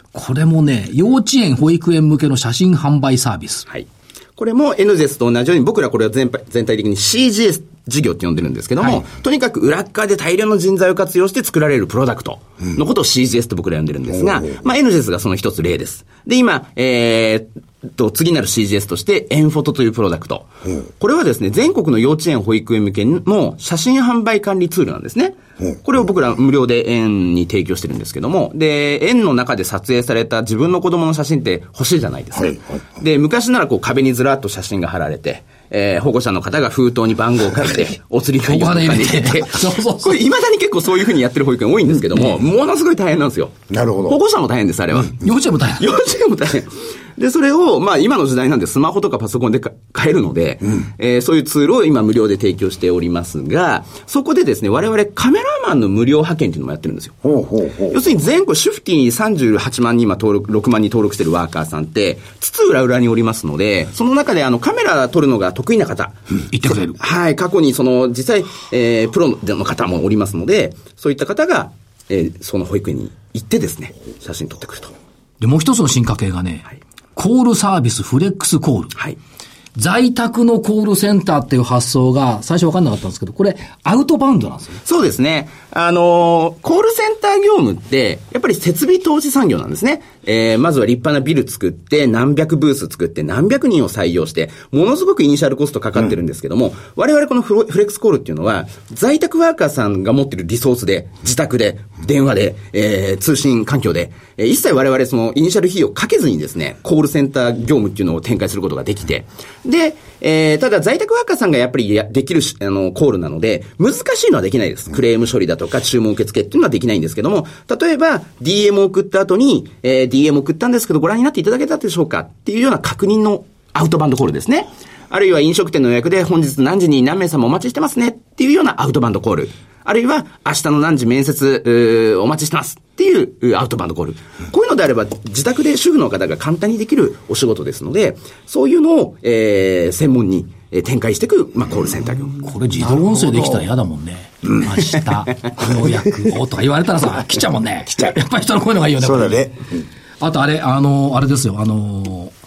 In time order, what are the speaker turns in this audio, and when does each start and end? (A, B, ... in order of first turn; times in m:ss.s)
0:00.1-0:03.7 A
0:03.7-0:20.5 B
0:21.0-0:45.2 B
0:38.4-0:40.2 A
0:43.7-0:44.2 C
0:45.2-0:45.9 A
0:45.8-0:57.2 B
0:57.2-0:58.0 C
0:57.9-1:06.2 B
1:06.5-1:07.0 A
1:06.9-1:14.9 B
1:15.4-1:18.9 A
1:19.8-1:24.8 A
1:24.8-2:22.4 B
2:22.4-2:29.5 A
2:29.0-2:29.6 C
2:30.2-2:32.3 A